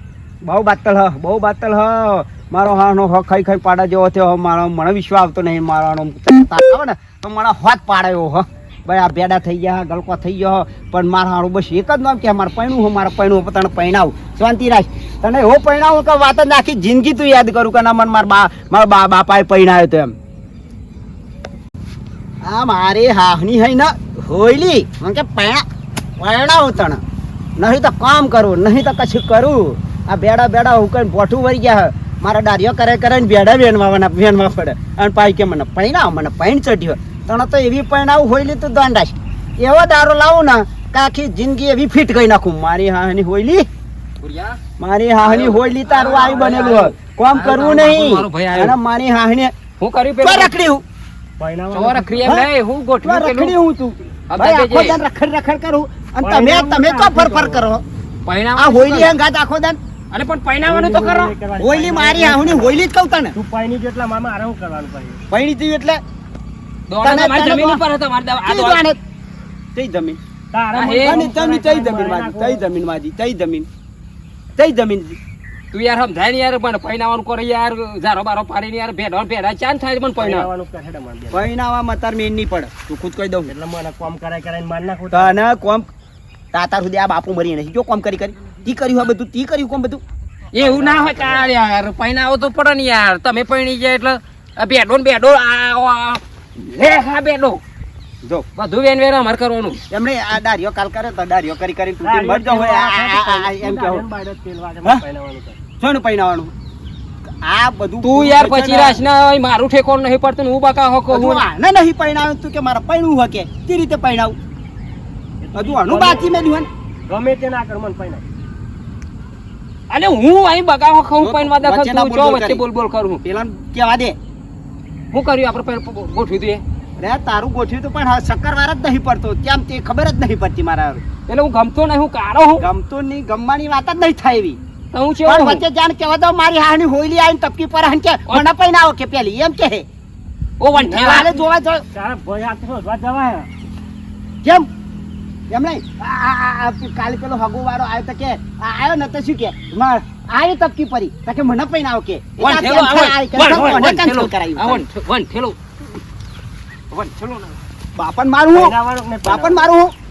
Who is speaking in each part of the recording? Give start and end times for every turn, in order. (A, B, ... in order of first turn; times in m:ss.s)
0:00.4-0:20.1 A
0:22.4-0:25.6 A
0:26.2-0:27.0 A
0:27.6-0:43.7 A
0:44.2-0:44.6 B
0:44.8-0:49.5 A
0:45.2-0:48.8 B
0:49.8-0:50.5 B
0:50.2-0:50.8 A
0:51.4-0:52.2 C
0:51.7-0:53.6 B
0:52.2-0:52.5 A
0:53.0-0:57.8 A
0:54.3-0:55.0 B
0:56.2-0:57.6 C
0:58.3-0:59.2 B
0:58.6-0:59.8 A
1:00.1-1:01.3 B
1:00.6-1:05.2 C
1:01.6-1:03.4 A
1:05.3-1:06.0 A
1:06.9-1:08.8 B
1:07.0-1:07.8 A
1:08.4-1:09.0 A
1:09.8-1:10.2 A
1:10.5-1:12.6 C
1:10.7-1:11.2 B
1:11.0-1:13.7 A
1:14.6-1:15.2 A
1:15.7-1:20.5 B
1:20.2-1:21.5 C
1:21.3-1:23.5 A
1:23.5-1:25.4 C
1:25.1-1:25.9 A
1:26.5-1:30.0 A
1:30.5-1:37.6 B
1:30.6-1:31.5 C
1:38.6-1:39.8 B
1:39.9-1:44.0 A
1:42.0-1:45.6 C
1:45.8-1:46.5 A
1:47.4-1:49.0 A
1:48.0-1:51.4 B
1:51.1-1:54.4 A
1:55.4-1:56.4 C
1:55.6-1:56.7 A
1:57.1-1:58.2 C
1:59.9-2:03.2 B
2:01.2-2:02.6 A
2:03.2-2:04.2 A
2:05.1-2:06.6 B
2:07.0-2:11.0 A
2:11.3-2:12.7 B
2:12.6-2:14.6 A
2:14.9-2:15.7 B
2:15.2-2:19.9 A
2:20.6-2:21.3 B
2:20.7-2:23.5 C
2:21.0-2:21.8 A
2:25.5-2:34.8 A
2:32.4-2:35.6 B
2:36.9-2:37.6 B
2:38.0-2:39.9 A
2:38.5-2:39.7 C